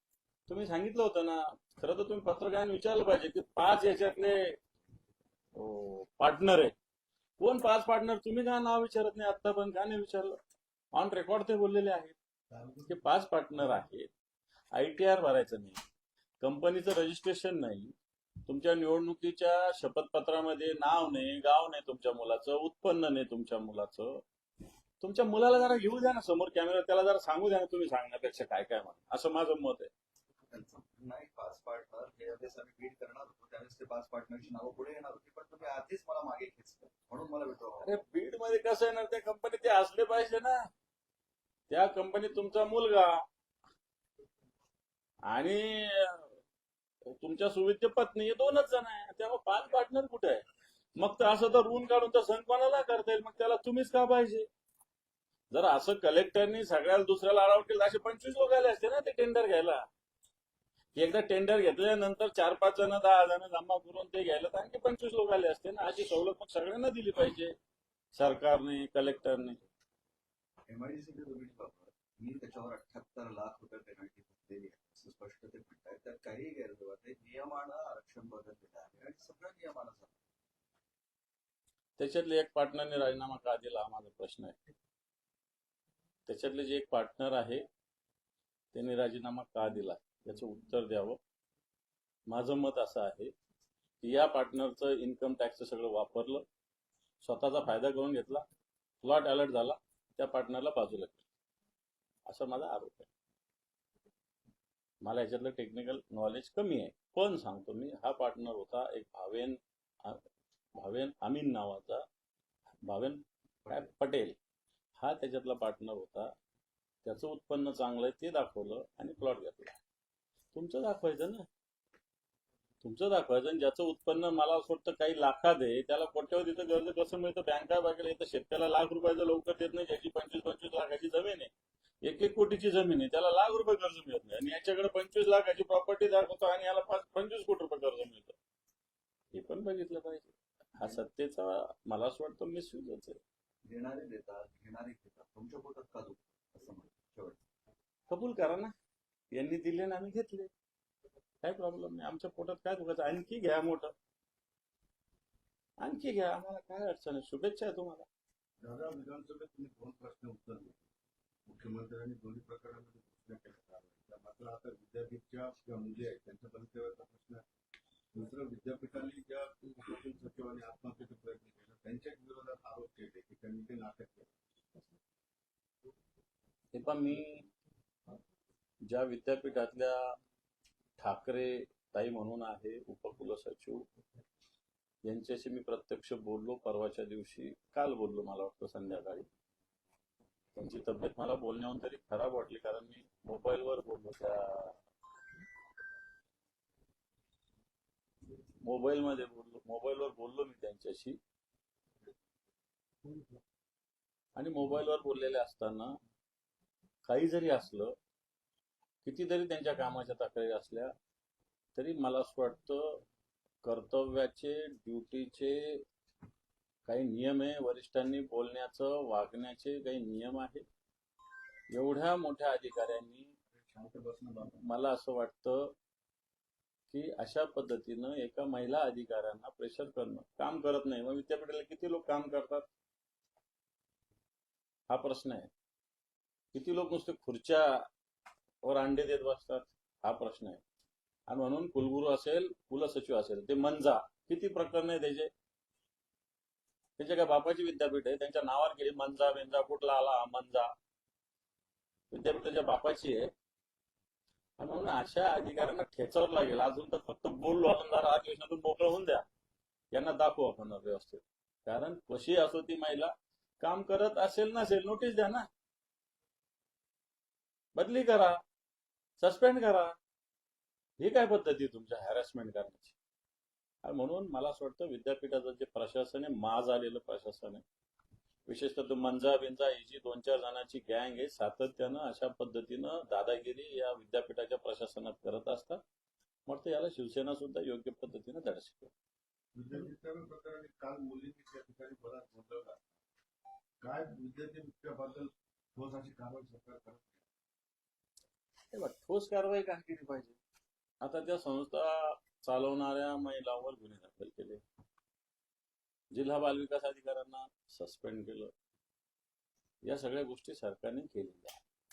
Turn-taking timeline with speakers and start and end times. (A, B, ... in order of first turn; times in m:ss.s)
0:00.5-0:04.6 A
0:05.5-0:06.7 A
0:07.4-0:10.4 A
0:10.9-0:12.2 A
0:12.8-0:14.1 A
0:14.7-0:15.8 A
0:16.4-0:17.9 A
0:18.5-0:24.2 A
0:25.0-0:29.9 A
0:30.5-0:38.0 B
0:37.8-0:40.7 A
0:41.7-0:43.2 A
0:45.3-0:46.4 A
0:47.1-0:50.4 A
0:51.0-0:54.5 A
0:55.5-0:59.9 A
1:00.9-1:07.5 A
1:08.2-1:09.6 A
1:10.7-1:20.2 B
1:22.0-1:24.6 A
1:26.3-1:27.6 A
1:28.7-1:31.2 A
1:32.3-1:33.3 A
1:34.0-1:36.4 A
1:37.2-1:38.4 A
1:39.0-1:41.2 A
1:42.3-1:43.1 A
1:45.0-1:50.2 A
1:50.8-1:52.0 A
1:52.8-1:54.4 A
1:55.0-1:56.3 A
1:57.0-1:59.8 A
2:00.5-2:01.5 A
2:02.8-2:11.5 A
2:12.0-2:18.4 A
2:19.3-2:23.2 A
2:23.6-2:27.4 B
2:28.1-2:28.7 A
2:29.3-2:30.5 A
2:31.4-2:33.9 A
2:35.8-2:38.1 A
2:38.6-2:40.8 C
2:41.4-2:47.4 C
2:48.1-2:54.3 C
2:56.7-2:57.5 A
2:58.8-3:00.2 A
3:01.0-3:03.8 A
3:05.0-3:09.3 A
3:10.6-3:14.8 A
3:18.6-3:21.2 A
3:24.4-3:25.9 A
3:27.0-3:28.0 A
3:29.0-3:30.9 A
3:31.7-3:33.0 A
3:33.6-3:35.8 A
3:36.9-3:40.6 A
3:41.7-3:43.3 A
3:43.5-3:44.5 C
3:44.6-3:45.7 A
3:46.9-3:52.7 A
3:54.9-3:55.5 A
3:56.5-3:57.9 A
3:58.6-4:00.6 A
4:01.3-4:05.3 A
4:07.0-4:10.7 A
4:12.1-4:13.3 A
4:14.6-4:19.2 A
4:19.9-4:25.5 A
4:27.8-4:28.4 A
4:29.2-4:29.9 A
4:31.0-4:33.0 A
4:33.8-4:37.6 A
4:38.5-4:45.8 A
4:46.5-4:48.9 A
4:49.5-4:52.9 C
4:53.8-4:57.2 C
4:58.7-5:00.4 A
5:01.0-5:04.6 A
5:06.1-5:08.5 A
5:09.8-5:11.6 A